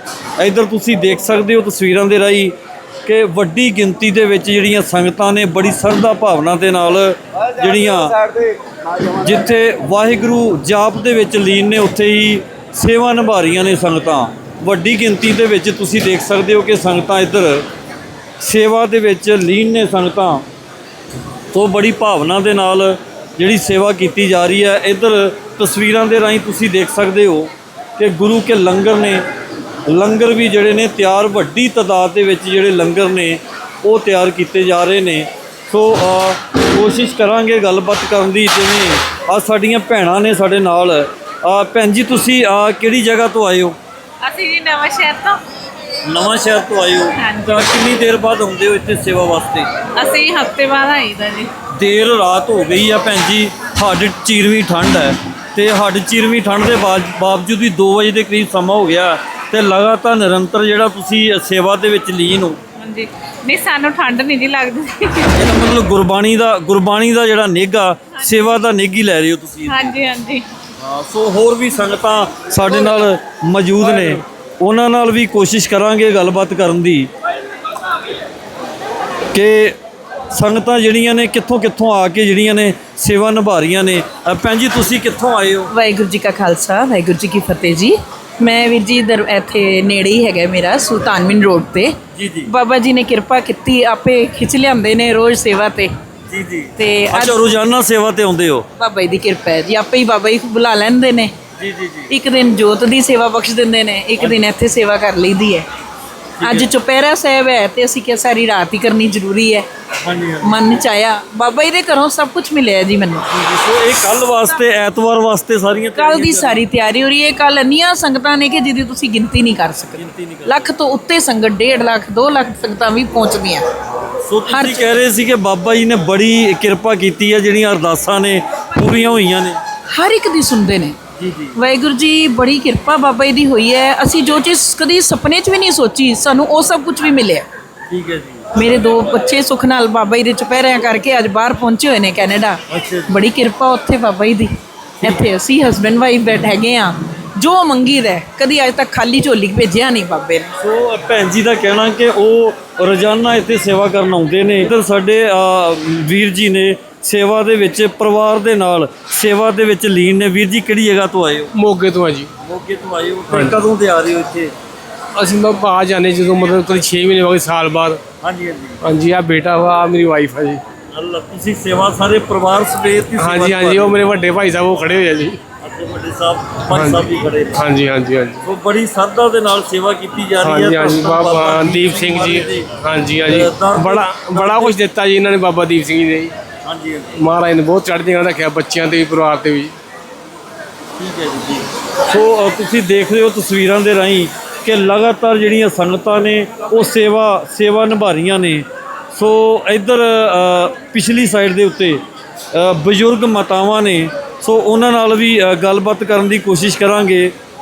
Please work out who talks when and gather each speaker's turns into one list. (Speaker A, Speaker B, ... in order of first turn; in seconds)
Speaker A: 0.4-2.5, 3.0-8.2, 9.2-17.6, 18.4-20.4, 21.5-29.2, 29.9-43.8, 46.0-49.7, 51.7-62.6, 65.3-69.9, 70.8-77.1, 79.3-79.8, 80.3-85.7, 92.1-92.5, 96.3-98.7, 101.6-102.1, 106.4-106.7, 109.9-110.6, 113.2-116.6, 119.9-120.7, 124.0-129.6, 131.2-131.6, 137.9-138.4, 142.7-143.2, 150.6-161.5, 162.4-164.5, 168.2-168.8, 170.9-174.0, 175.6-177.7, 178.4-182.7, 183.2-184.8, 186.6-187.2, 191.0-207.3
Speaker B: 44.2-45.4, 50.0-51.5, 62.8-65.1, 69.8-70.4
Speaker C: 85.7-91.9, 92.5-95.9, 96.8-97.5, 98.8-101.3, 102.1-105.7, 106.4-109.7, 110.4-113.2, 115.9-123.6, 124.5-124.9, 129.9-130.9, 131.6-137.5, 138.5-150.5
Speaker D: 161.5-162.3, 163.3-163.6, 165.2-168.0, 168.8-170.6, 173.2-175.4, 176.7-178.4, 180.4-186.3, 187.2-189.7